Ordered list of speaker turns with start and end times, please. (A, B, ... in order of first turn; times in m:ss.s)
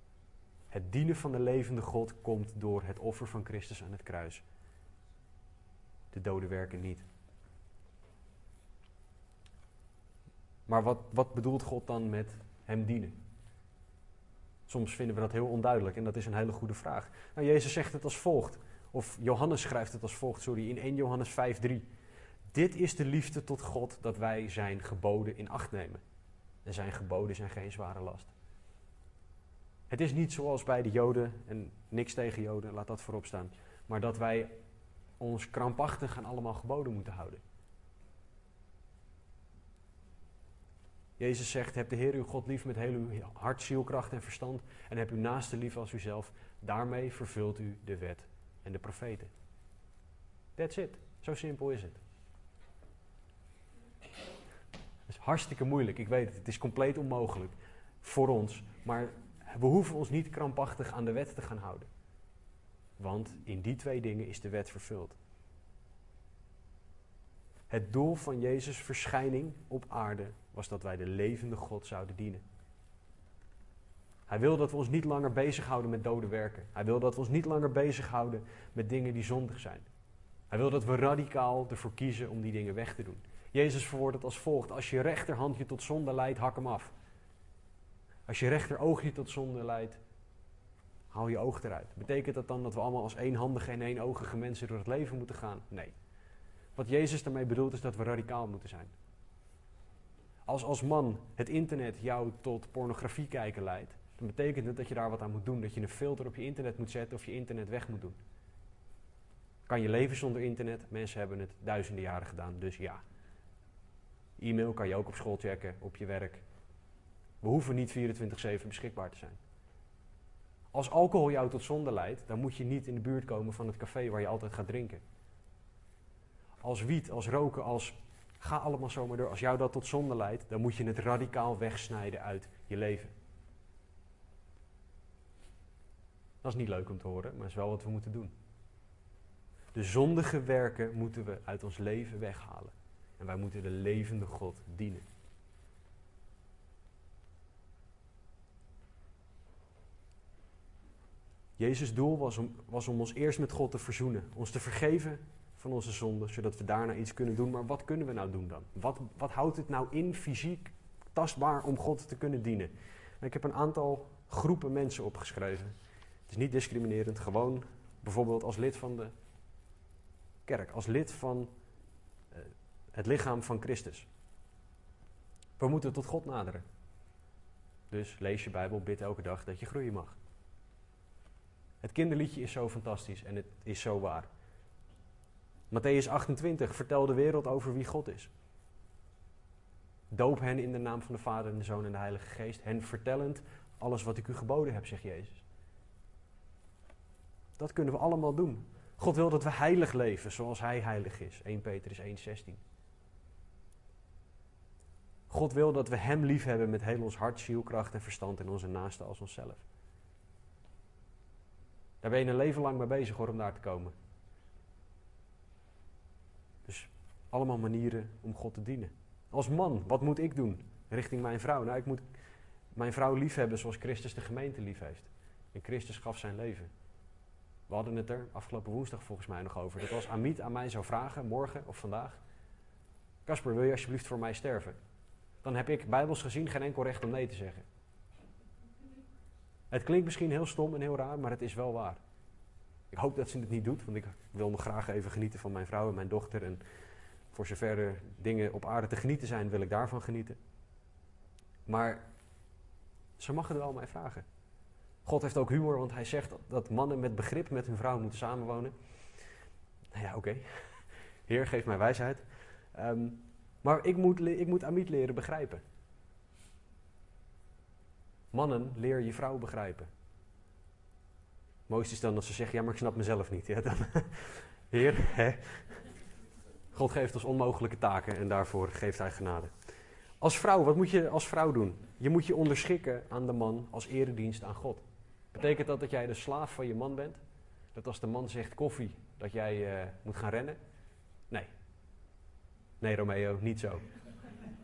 0:00.7-0:04.4 A
0:06.1-0:07.0 A
0:10.7-0:13.2 A
0:14.7-0:21.9 A
0:22.5-0:26.0 A
0:26.6-0:28.3 A
0:29.9-0:34.5 A
0:35.2-0:37.4 A
0:41.2-0:49.3 A
0:50.6-0:52.0 A
0:55.1-1:01.9 A
1:03.0-1:05.2 A
1:07.7-1:12.4 A
1:14.3-1:19.9 A
1:20.5-1:26.9 A
1:28.3-1:30.0 A
1:31.1-1:35.9 A
1:36.8-1:38.9 A
1:40.4-1:48.2 A
1:49.7-1:53.0 A
1:54.4-1:56.4 A
1:57.4-1:59.4 A
2:00.7-2:05.0 A
2:06.6-2:13.1 A
2:16.4-2:18.3 A
2:19.7-2:25.0 A
2:31.6-2:45.7 A
2:46.3-2:49.1 A
2:50.4-2:51.5 A
2:52.3-2:54.1 A
2:55.6-2:56.6 A
2:57.9-3:00.2 A
3:01.8-3:04.3 A
3:05.7-3:08.3 A
3:10.1-3:15.4 A
3:17.6-3:22.6 A
3:25.3-3:29.6 A
3:32.0-3:33.9 A
3:36.6-3:42.0 A
3:42.7-3:46.7 A
3:47.7-3:52.2 A
3:53.2-3:54.8 A
3:55.4-3:57.7 A
3:59.7-4:02.0 A
4:02.9-4:06.6 A
4:07.3-4:10.4 A
4:11.6-4:12.1 A
4:13.2-4:14.2 A
4:15.0-4:18.7 A
4:19.9-4:25.6 A
4:28.3-4:29.9 A
4:31.7-4:35.8 A
4:36.7-4:39.5 A
4:40.2-4:47.2 A
4:47.7-4:50.6 A
4:52.8-4:53.8 A